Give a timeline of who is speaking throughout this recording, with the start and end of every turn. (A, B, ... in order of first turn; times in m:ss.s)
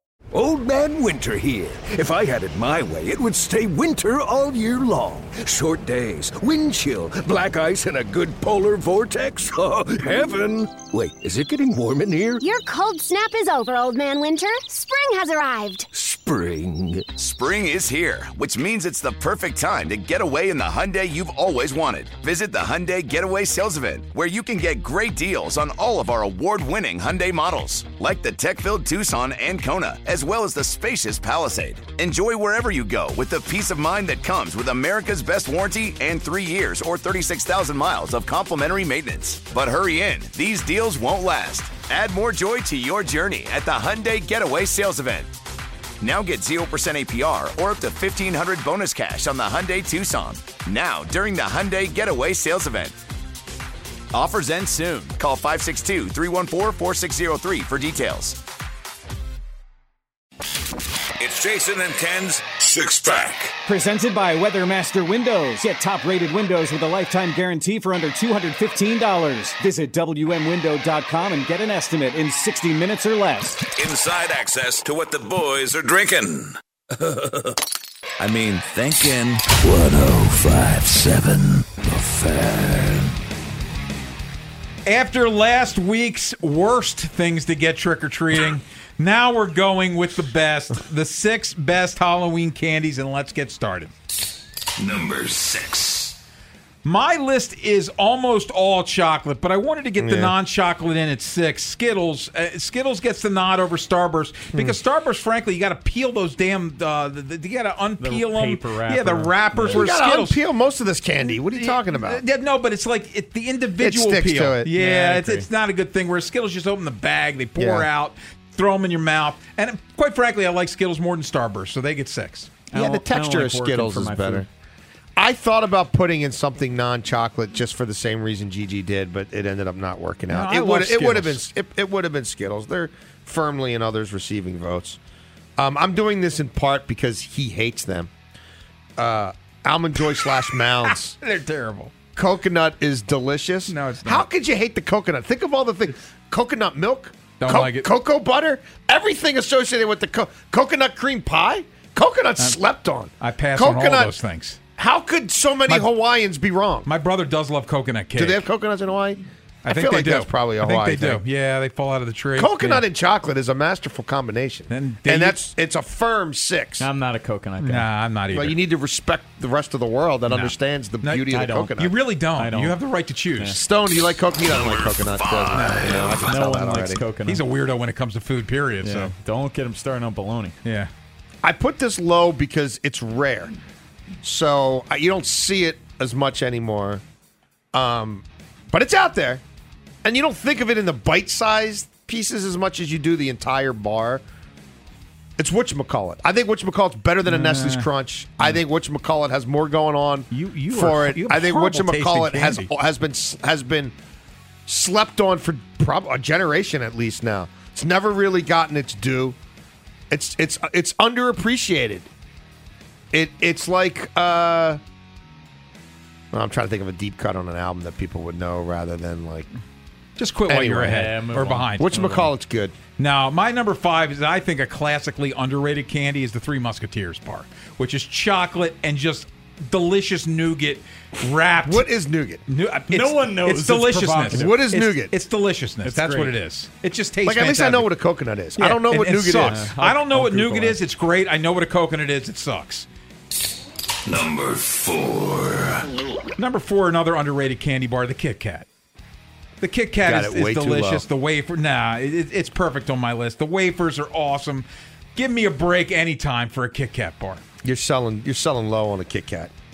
0:00.3-0:12.5 A
0:12.4-0:15.9 B
0:15.9-0:17.1 A
0:17.1-0:45.3 C
0:46.0-0:53.0 C
0:54.1-0:58.4 C
1:01.2-1:03.5 D
1:03.6-1:13.6 E
1:13.7-1:16.5 D
1:18.2-1:23.0 D
1:24.8-1:33.9 F
1:34.8-1:36.1 D
1:36.8-1:50.4 F
1:40.0-1:40.3 G
1:44.5-1:44.8 G
1:48.1-1:49.7 H
1:49.7-1:52.2 G
1:51.2-2:02.6 F
1:53.8-1:54.7 G
1:54.8-1:55.4 H
1:57.6-1:57.9 G
2:02.7-2:04.5 G
2:02.7-2:04.4 H
2:05.2-2:15.0 G
2:10.3-2:11.4 F
2:15.6-2:18.1 G
2:19.0-2:21.2 G
2:20.8-2:21.9 F
2:22.1-2:34.1 G
2:23.7-2:24.3 F
2:27.4-2:27.9 F
2:33.2-2:34.6 F
2:34.8-2:36.9 G
2:36.8-2:38.5 F
2:38.1-2:41.2 G
2:39.6-2:42.8 F
2:42.4-2:46.9 G
2:44.7-2:45.4 F
2:46.8-2:47.8 H
2:47.6-2:48.6 F
2:48.3-2:51.9 G
2:50.2-2:53.6 F
2:51.3-2:51.6 H
2:52.4-2:52.8 H
2:53.5-2:57.0 G
2:54.5-2:56.4 D
2:55.5-2:55.9 F
2:56.3-2:57.4 H
2:57.2-2:59.1 F
2:58.8-3:00.5 H
3:00.6-3:00.9 F
3:01.4-3:03.5 G
3:04.2-3:07.0 G
3:07.7-3:09.4 G
3:10.0-3:14.2 G
3:15.4-3:23.9 G
3:17.2-3:18.6 F
3:20.3-3:22.7 F
3:24.7-3:29.4 G
3:30.1-3:32.1 G
3:33.1-3:34.8 G
3:36.3-3:39.5 G
3:40.2-3:42.3 F
3:40.5-3:41.1 G
3:41.0-3:41.7 H
3:41.7-3:42.8 G
3:43.0-3:51.9 F
3:51.6-3:52.4 G
3:52.4-3:57.9 F
3:52.9-3:54.2 H
3:54.3-3:55.1 G
3:55.9-3:56.3 H
3:57.2-3:59.7 G
3:58.6-4:02.8 F
3:59.5-4:00.7 H
4:04.0-4:05.8 D
4:06.4-4:08.7 F
4:09.6-4:17.4 F
4:10.0-4:11.0 G
4:17.6-4:19.5 G